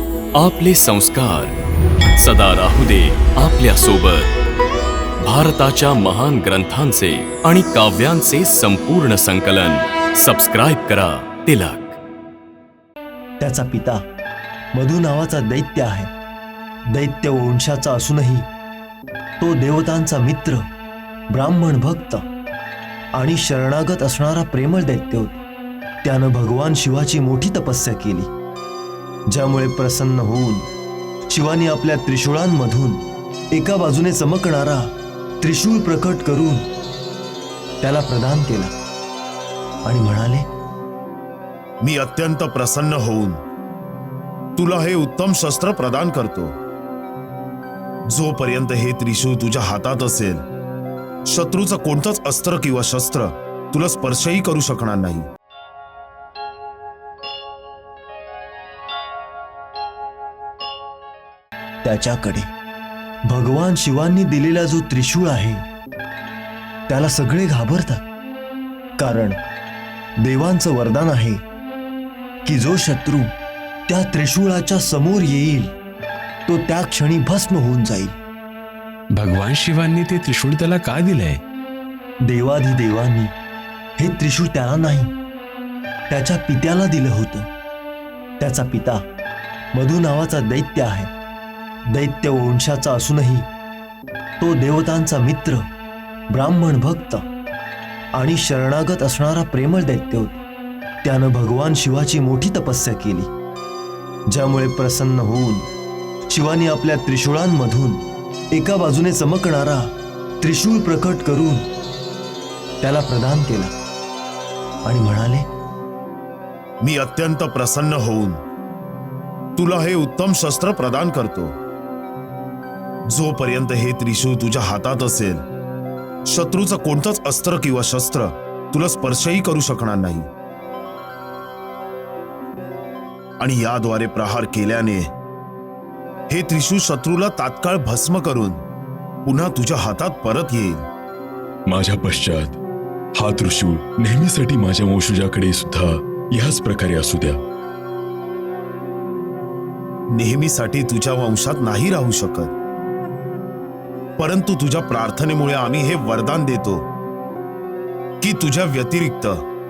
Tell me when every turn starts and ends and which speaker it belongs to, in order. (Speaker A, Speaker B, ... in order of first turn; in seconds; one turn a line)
Speaker A: 0.3-1.6
Speaker A: 2.2-4.3
Speaker A: 5.2-12.0
Speaker B: 13.4-14.0
Speaker B: 14.7-16.1
Speaker B: 16.9-18.4
Speaker B: 19.4-20.6
Speaker B: 21.3-22.2
Speaker B: 23.1-25.4
Speaker B: 26.0-28.3
Speaker B: 29.3-30.7
Speaker B: 31.3-33.0
Speaker B: 33.5-34.9
Speaker B: 35.4-36.6
Speaker B: 37.8-38.7
Speaker B: 39.8-40.5
Speaker C: 41.8-43.4
Speaker C: 44.6-46.5
Speaker C: 48.1-50.4
Speaker C: 51.3-55.3
Speaker B: 61.8-62.4
Speaker B: 63.3-65.6
Speaker B: 66.9-68.0
Speaker B: 69.0-69.3
Speaker B: 70.2-71.4
Speaker B: 72.4-73.3
Speaker B: 73.9-75.7
Speaker B: 76.5-78.1
Speaker D: 79.1-81.4
Speaker B: 82.3-83.3
Speaker B: 84.0-85.1
Speaker B: 86.1-87.5
Speaker B: 88.4-89.0
Speaker B: 89.7-91.1
Speaker B: 91.9-93.4
Speaker B: 94.4-95.7
Speaker B: 96.3-97.2
Speaker B: 98.2-100.4
Speaker B: 101.0-103.3
Speaker B: 104.3-105.7
Speaker B: 106.3-108.0
Speaker B: 108.5-109.9
Speaker B: 110.4-111.7
Speaker B: 112.8-113.7
Speaker B: 114.8-115.5
Speaker C: 116.8-118.4
Speaker C: 119.6-121.5
Speaker C: 123.1-125.4
Speaker C: 126.3-130.3
Speaker C: 133.4-135.1
Speaker C: 136.3-138.6
Speaker C: 139.2-140.8
Speaker E: 141.7-142.6
Speaker E: 143.2-147.4
Speaker C: 150.1-152.5
Speaker C: 154.2-156.8
Speaker C: 158.2-159.4